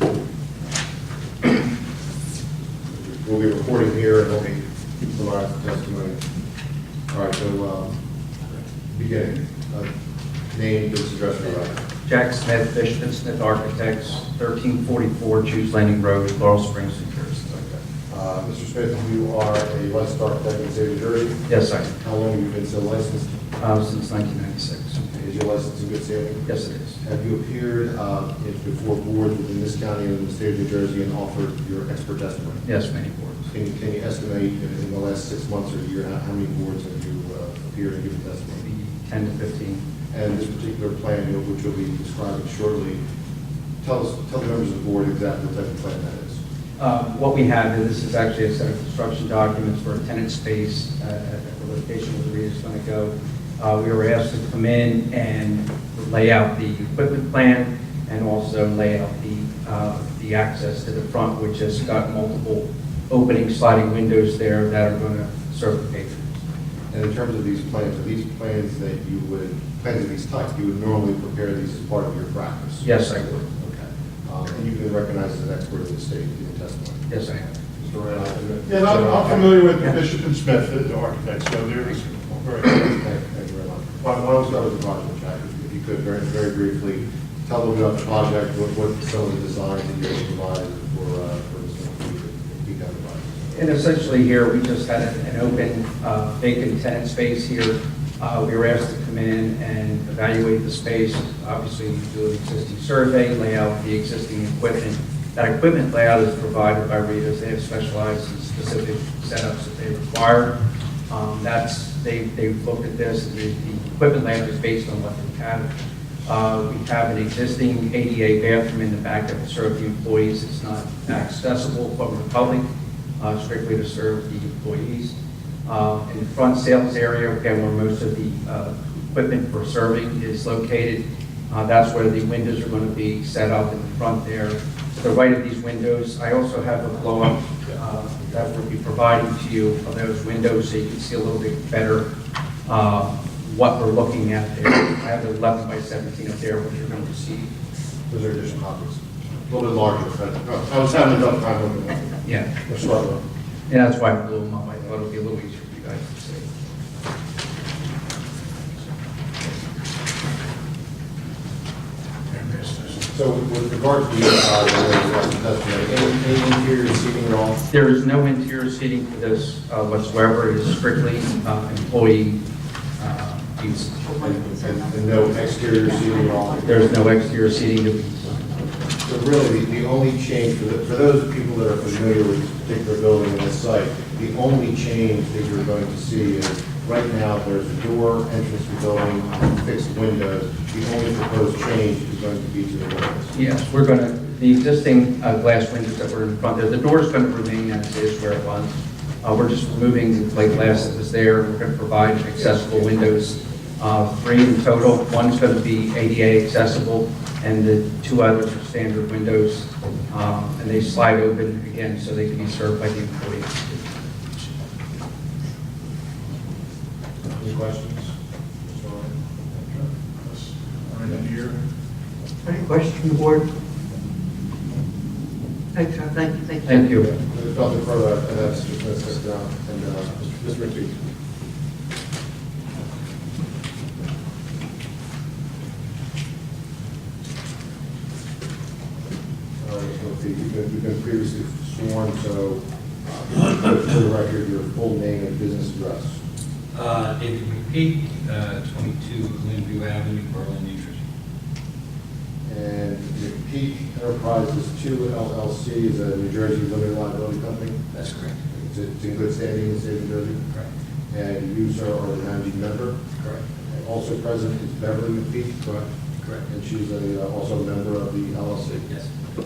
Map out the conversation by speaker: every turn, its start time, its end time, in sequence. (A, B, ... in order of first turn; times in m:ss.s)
0:02.9-0:06.2 A
0:07.1-0:08.0 A
0:08.9-0:09.9 A
0:10.5-0:11.8 A
0:12.1-0:17.8 B
0:18.1-0:21.4 A
0:21.5-0:21.9 B
0:22.0-0:23.4 A
0:23.6-0:25.1 B
0:25.1-0:32.6 A
0:26.5-0:27.0 B
0:32.6-0:33.5 B
0:33.5-0:38.7 A
0:38.6-0:39.8 B
0:40.1-0:43.0 A
0:43.8-0:46.4 A
0:46.8-1:06.4 B
1:06.9-1:12.9 A
1:12.8-1:13.6 B
1:13.6-1:19.7 A
1:17.1-1:17.4 B
1:18.7-1:22.8 C
1:22.4-1:33.5 A
1:33.5-1:50.5 B
1:51.1-1:55.7 B
1:56.3-2:02.7 B
2:03.2-2:22.0 B
2:22.7-2:27.5 B
2:28.1-2:32.2 A
2:32.2-2:32.5 B
2:32.7-2:33.2 A
2:33.7-2:36.5 B
2:42.3-2:42.8 C
2:43.1-2:47.6 A
2:47.7-2:52.4 B
2:53.0-2:54.0 B
2:54.0-2:56.8 D
2:54.2-2:56.9 A
2:56.6-2:58.7 B
2:59.0-3:13.4 A
3:13.3-3:33.9 B
3:22.5-3:22.9 A
3:37.3-3:38.1 A
3:38.7-3:39.1 A
3:39.7-3:41.6 C
3:42.4-3:43.4 D
3:45.8-3:46.8 D
3:46.7-3:47.1 B
3:47.0-3:50.9 A
3:59.6-4:06.2 A
4:06.7-4:11.0 E
4:12.4-4:17.8 A
4:17.9-4:18.4 E
4:18.5-4:20.4 A
4:21.1-4:23.0 A
4:23.7-4:25.9 A
4:26.4-4:28.9 A